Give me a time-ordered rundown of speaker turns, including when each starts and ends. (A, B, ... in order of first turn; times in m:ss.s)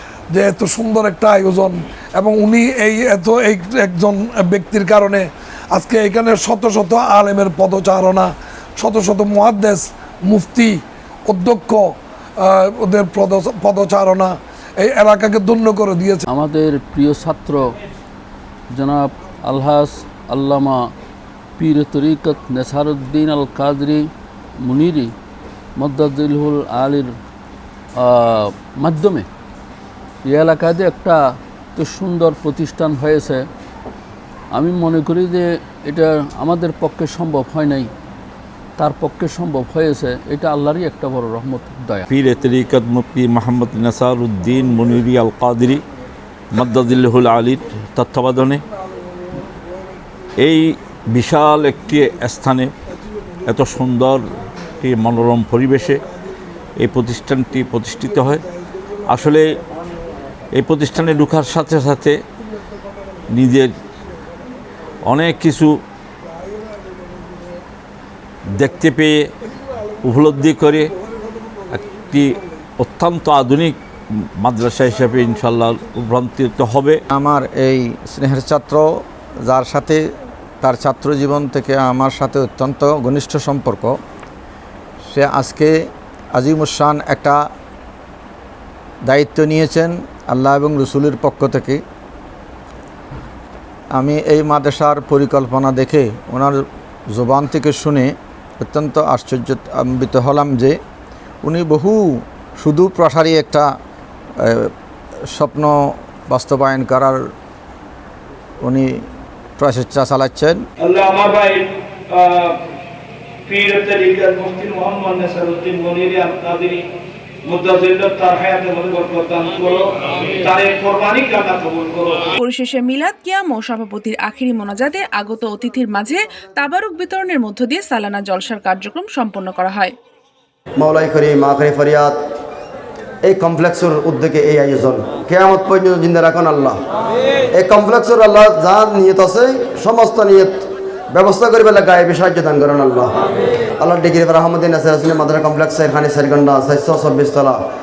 0:00.3-0:16.2 A
0:16.3-0:17.7 B
0:18.7-0:20.9 B
0:21.6-0:24.1 B
0:24.6-0:25.1 B
0:25.8-0:27.1 B
0:28.0-0:29.2 B
0:30.2-0:33.4 B
0:34.5-0:37.9 B
0:38.8-0:42.1 B
0:42.1-0:45.8 C
0:46.5-0:48.6 C
0:50.4-0:52.7 C
0:53.5-0:54.2 C
0:54.8-0:56.0 C
0:56.8-0:58.4 C
0:59.1-0:59.4 C
1:00.5-1:02.2 C
1:03.3-1:03.7 C
1:05.1-1:05.7 C
1:08.6-1:09.2 C
1:10.0-1:10.9 C
1:11.7-1:13.8 C
1:14.4-1:17.0 C
1:17.1-1:20.0 D
1:20.6-1:24.0 D
1:25.1-1:25.8 D
1:26.3-1:27.4 D
1:29.0-1:31.8 D
1:33.9-1:40.8 D
1:41.4-1:43.7 D
1:44.4-1:44.7 D
1:45.3-1:47.3 D
1:48.6-1:49.0 D
1:49.6-1:50.6 D
1:50.8-1:52.6 E
1:53.5-1:56.8 E
1:57.4-2:02.3 E
2:02.4-2:09.9 F
2:10.8-2:12.2 G
2:13.2-2:16.8 G
2:17.5-2:27.6 G